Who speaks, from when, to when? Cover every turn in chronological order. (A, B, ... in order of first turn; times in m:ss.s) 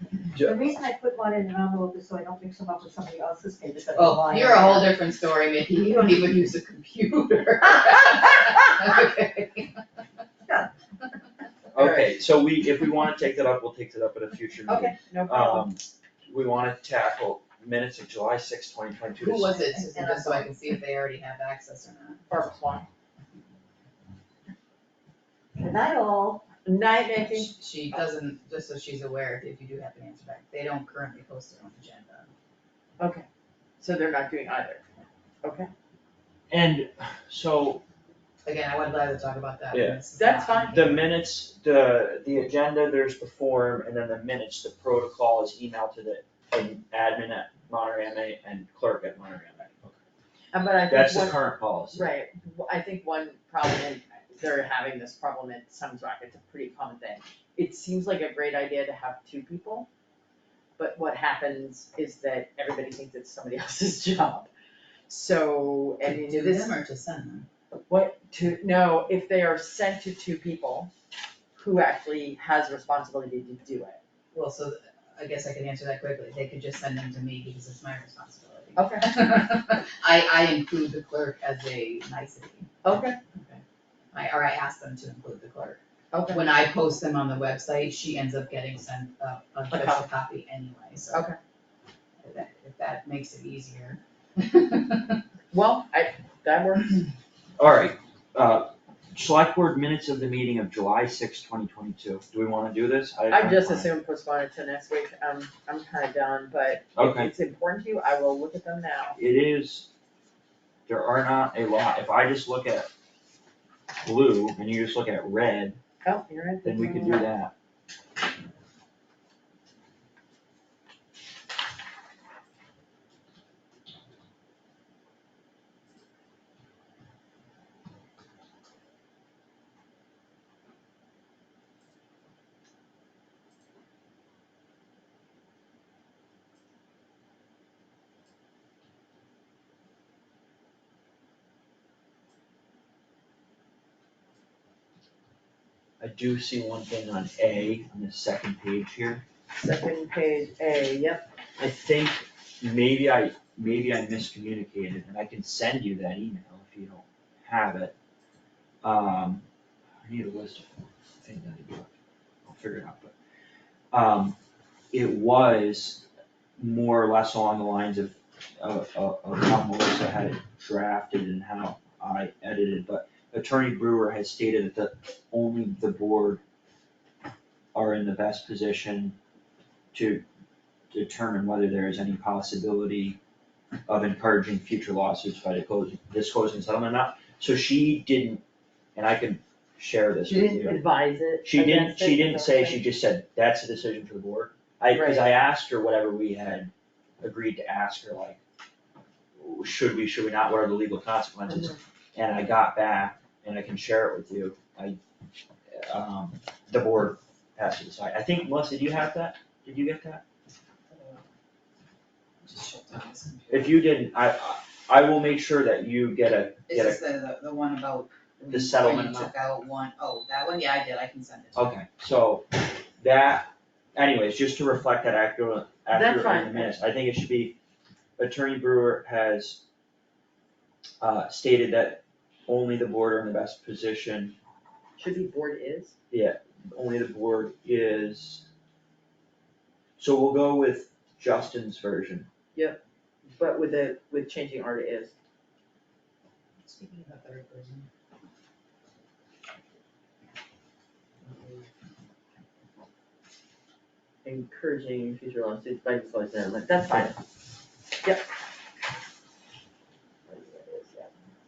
0:00.3-0:00.6 A
0:00.4-0:05.0 B
0:04.0-0:09.8 C
0:11.7-0:19.6 A
0:14.7-0:15.7 D
0:19.2-0:22.2 C
0:19.8-0:20.5 B
0:22.3-0:22.9 D
0:25.6-0:26.4 B
0:26.4-0:27.5 D
0:27.4-0:32.3 C
0:33.0-0:33.3 D
0:33.8-0:34.8 D
0:35.4-0:35.7 D
0:36.5-0:37.8 A
0:38.4-0:41.0 C
0:39.7-0:40.0 A
0:40.1-0:40.8 D
0:40.7-0:50.0 A
0:50.5-0:51.4 D
0:50.9-0:52.1 A
0:51.9-0:59.9 D
1:00.8-1:04.5 D
1:05.1-1:06.7 D
1:06.0-1:07.5 C
1:07.9-1:10.9 D
1:11.6-1:14.0 D
1:14.3-1:22.7 C
1:18.8-1:19.2 D
1:22.8-1:23.2 D
1:23.3-1:23.6 C
1:24.1-1:31.3 C
1:26.1-1:26.4 D
1:29.7-1:30.0 D
1:31.1-1:31.4 D
1:32.2-1:35.2 C
1:35.5-1:37.1 D
1:37.6-1:43.9 A
1:43.3-1:49.2 D
1:47.0-1:47.3 A
1:49.2-1:49.9 A
1:50.9-1:52.9 A
1:54.0-1:55.8 A
1:56.0-1:57.2 D
1:56.6-1:57.5 A
2:26.0-2:29.2 A
2:29.5-2:31.3 D
2:31.6-2:37.9 A
2:38.8-2:39.4 A
2:40.0-2:41.9 A
2:42.5-2:43.1 A
2:43.9-2:44.4 A
2:44.9-2:46.1 A
2:46.6-2:56.4 A
2:57.7-2:59.2 A
2:59.9-3:00.2 A
3:00.9-3:03.2 A
3:03.9-3:08.4 A
3:09.0-3:10.8 A
3:10.2-3:12.9 D
3:11.4-3:18.4 A
3:14.9-3:15.3 D
3:19.4-3:25.0 A
3:21.5-3:21.8 D
3:25.7-3:30.2 A
3:32.4-3:33.8 C
3:33.5-3:37.0 A
3:36.7-3:41.7 C
3:38.5-3:39.3 A
3:41.6-3:47.6 A
3:45.9-3:46.7 D
3:48.2-3:49.6 A
3:51.0-3:54.4 A
3:55.0-3:56.0 D
3:56.1-3:58.5 A
4:00.0-4:02.3 A
4:02.6-4:02.8 D
4:03.3-4:05.1 D
4:06.6-4:07.9 C
4:11.3-4:11.6 D
4:14.2-4:17.2 D
4:18.0-4:18.3 D
4:20.3-4:21.1 D